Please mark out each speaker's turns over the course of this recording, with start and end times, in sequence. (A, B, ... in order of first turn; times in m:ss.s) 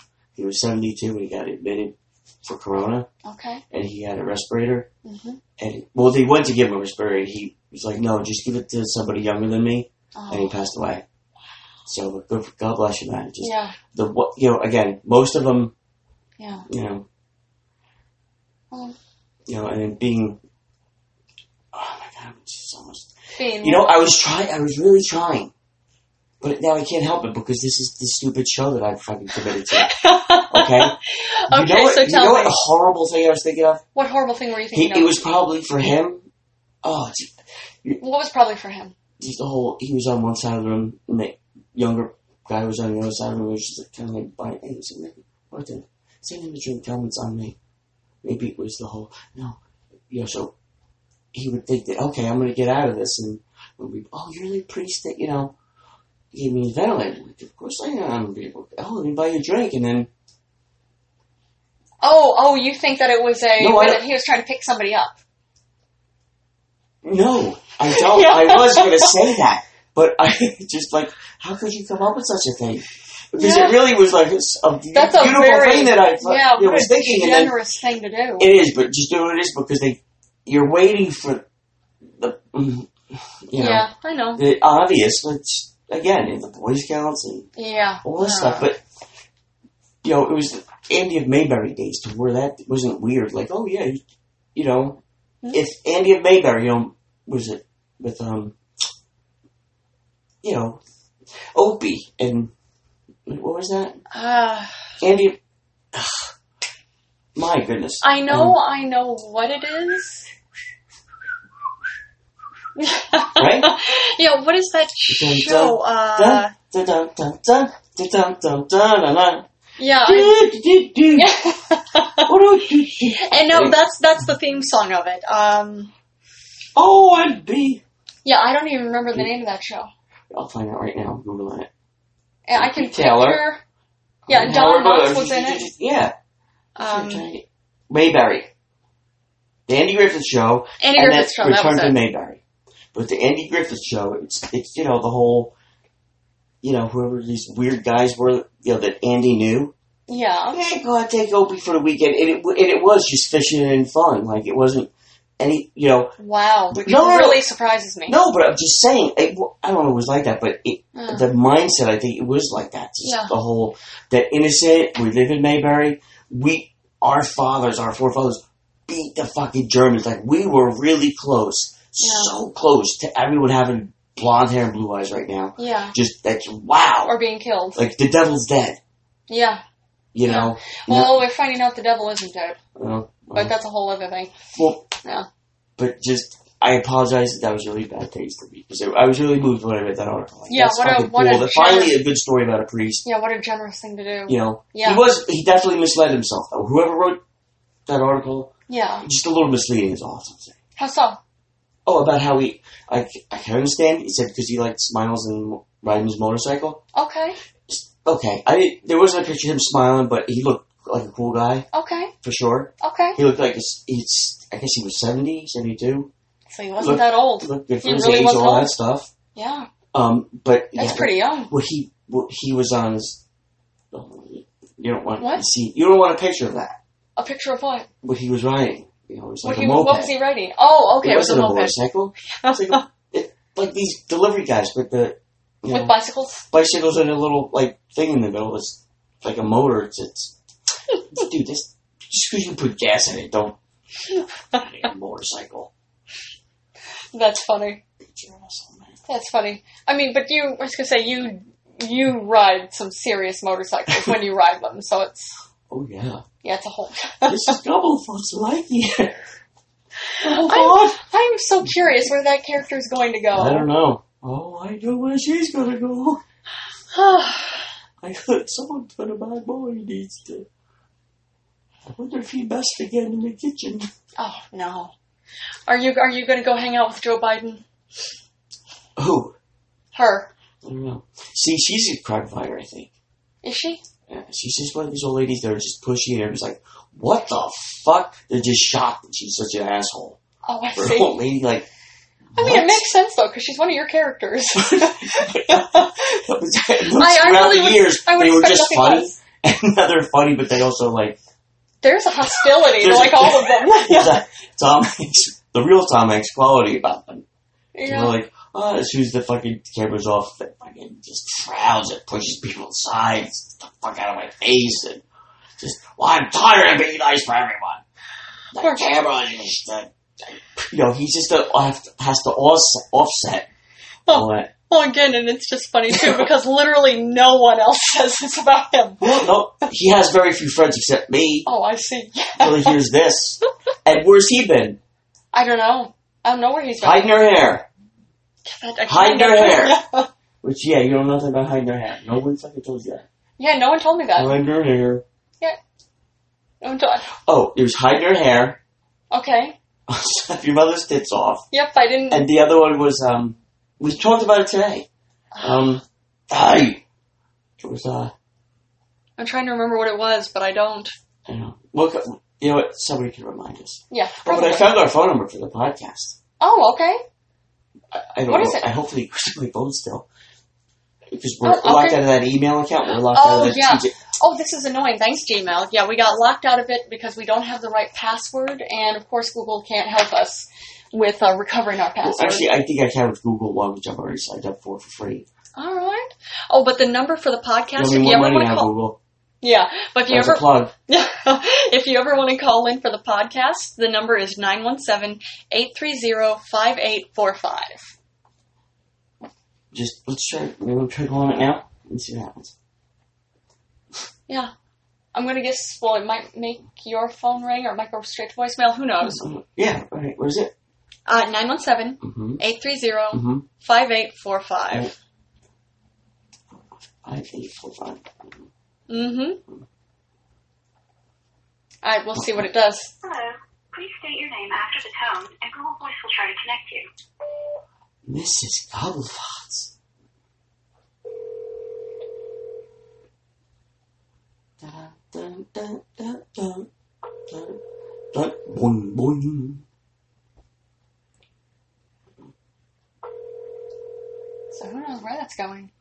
0:00.4-0:03.1 A
0:03.2-0:03.6 B
0:03.7-0:04.9 A
0:05.0-0:05.4 B
0:05.6-0:11.0 A
0:10.2-0:10.6 B
0:11.9-0:15.7 A
0:13.4-0:13.8 B
0:16.4-0:16.7 B
0:16.7-0:17.0 A
0:18.7-0:19.0 B
0:19.5-0:20.4 A
0:21.7-0:23.1 A
0:23.3-0:23.9 B
0:23.6-0:25.5 A
0:26.4-0:29.9 A
0:29.8-0:32.6 B
0:30.5-0:31.0 A
0:31.5-0:33.8 A
0:34.0-0:35.1 B
0:34.7-0:36.2 A
0:36.8-0:38.0 A
0:38.0-0:39.0 B
0:39.2-0:47.6 A
0:48.2-0:49.6 A
0:50.1-0:50.5 A
0:51.3-0:55.5 A
0:56.3-1:00.1 A
1:02.0-1:05.2 B
1:03.6-1:04.0 A
1:07.0-1:17.6 A
1:07.9-1:09.2 B
1:13.4-1:13.8 B
1:14.9-1:18.5 B
1:18.4-1:21.4 A
1:22.2-1:27.5 A
1:23.6-1:24.4 B
1:27.6-1:28.7 B
1:28.0-1:28.8 A
1:30.0-1:34.0 A
1:34.6-1:38.5 A
1:40.4-1:40.8 A
1:41.5-1:42.5 A
1:43.3-1:44.0 A
1:44.1-1:44.7 B
1:45.0-1:45.4 A
1:45.9-1:46.3 A
1:47.4-1:48.6 A
1:48.0-1:50.3 B
1:52.8-1:56.5 B
1:53.4-1:53.7 A
1:55.1-1:59.5 A
1:59.8-2:00.5 B
2:00.0-2:01.3 A
2:01.1-2:02.3 B
2:02.2-2:03.8 A
2:03.1-2:05.9 B
2:06.8-2:07.8 A
2:08.2-2:09.9 B
2:10.3-2:11.7 A
2:12.5-2:13.6 B
2:12.6-2:13.4 A
2:14.3-2:16.1 A
2:14.3-2:15.7 B
2:16.8-2:17.3 B
2:16.8-2:18.5 A
2:19.7-2:22.4 A
2:20.8-2:22.0 B
2:22.9-2:25.5 A
2:26.6-2:29.7 A
2:30.1-2:30.6 B
2:30.5-2:36.2 A
2:36.2-2:38.2 B
2:36.7-2:37.4 A
2:38.1-2:57.1 A
2:40.9-2:41.3 B
2:43.0-2:43.3 B
2:52.0-2:52.3 B
2:55.6-2:56.0 B
2:57.0-2:57.8 B
2:57.8-2:58.8 A
2:59.3-2:59.6 B
3:00.1-3:01.2 A
3:00.2-3:02.6 B
3:02.8-3:03.5 A
3:03.3-3:04.4 B
3:04.5-3:04.9 A
3:05.8-3:13.0 A
3:10.5-3:12.0 B
3:13.0-3:15.0 B
3:14.3-3:17.2 A
3:17.9-3:18.5 A
3:18.7-3:19.1 B
3:19.0-3:20.6 A
3:20.8-3:21.2 B
3:21.9-3:26.8 A
3:27.0-3:27.4 B
3:27.7-3:31.7 A
3:31.7-3:32.1 B
3:32.2-3:36.1 A
3:32.8-3:33.2 B
3:36.5-3:38.7 B
3:36.8-3:39.1 A
3:39.4-3:39.7 B
3:39.9-3:43.2 A
3:40.8-3:41.5 B
3:43.9-3:46.8 A
3:45.2-3:45.4 B
3:47.2-3:47.9 B
3:48.0-3:50.1 A
3:49.4-3:51.8 B
3:51.0-3:55.9 A
3:52.4-3:52.8 B
3:55.7-3:56.4 B
3:56.5-4:00.4 A
4:01.1-4:03.6 A
4:04.2-4:04.6 B
4:04.5-4:05.7 A
4:07.1-4:07.8 B
4:08.0-4:09.0 A
4:09.1-4:15.4 B
4:15.7-4:16.2 A
4:16.4-4:17.6 B
4:17.3-4:19.3 A
4:20.1-4:23.7 B
4:20.2-4:21.0 A
4:21.6-4:22.0 A
4:23.3-4:26.2 A
4:26.9-4:27.7 B
4:28.0-4:30.5 A
4:31.9-4:33.9 A
4:34.2-4:34.9 B
4:35.7-4:37.6 B
4:39.0-4:39.4 A
4:39.9-4:40.3 B
4:40.6-4:42.9 A
4:43.4-4:43.8 B
4:44.1-4:50.2 A
4:50.4-4:51.2 B
4:50.8-4:51.7 A
4:52.4-4:52.8 A
4:52.4-4:56.2 B
4:54.6-5:01.2 A
4:57.0-4:59.2 B
5:01.8-5:04.2 B
5:02.3-5:07.2 A
5:07.8-5:08.2 B
5:07.8-5:15.0 A
5:15.6-5:17.8 A
5:18.5-5:23.5 A
5:18.6-5:18.9 B
5:24.1-5:29.2 B
5:24.1-5:24.5 A
5:25.9-5:26.3 A
5:29.0-5:31.5 A
5:31.5-5:32.8 B
5:32.4-5:34.8 A
5:35.3-5:37.1 B
5:36.8-5:37.7 A
5:38.4-5:40.1 B
5:38.9-5:39.8 A
5:40.4-5:43.1 A
5:43.4-5:44.4 B
5:44.2-5:45.0 A
5:46.6-5:47.1 B
5:47.2-5:48.6 A
5:49.1-5:49.6 B
5:49.9-5:51.4 A
5:51.5-5:52.3 B
5:52.1-5:54.9 A
5:55.3-5:55.7 B
5:55.4-5:56.8 A
5:57.6-5:58.1 A
5:59.2-6:01.0 B
6:01.3-6:06.2 A
6:03.9-6:04.7 B
6:06.4-6:07.0 B
6:07.9-6:10.1 A
6:08.3-6:08.7 B
6:11.1-6:14.0 A
6:11.4-6:12.0 B
6:13.1-6:22.5 B
6:22.0-6:25.3 A
6:25.6-6:28.7 B
6:27.8-6:29.0 A
6:29.4-6:37.9 B
6:30.1-6:30.7 A
6:39.7-6:42.5 A
6:45.1-6:49.2 B
6:49.0-6:50.5 A
6:51.1-6:54.9 B
6:52.0-6:52.4 A
6:53.1-6:53.5 A
6:57.0-6:58.5 A
6:58.9-6:59.4 B
7:01.8-7:02.9 B
7:02.2-7:02.4 A
7:03.0-7:06.9 C
7:08.0-7:09.7 A
7:14.6-7:16.7 A
7:17.3-7:17.6 A
7:18.1-7:19.6 A
7:24.5-7:25.7 B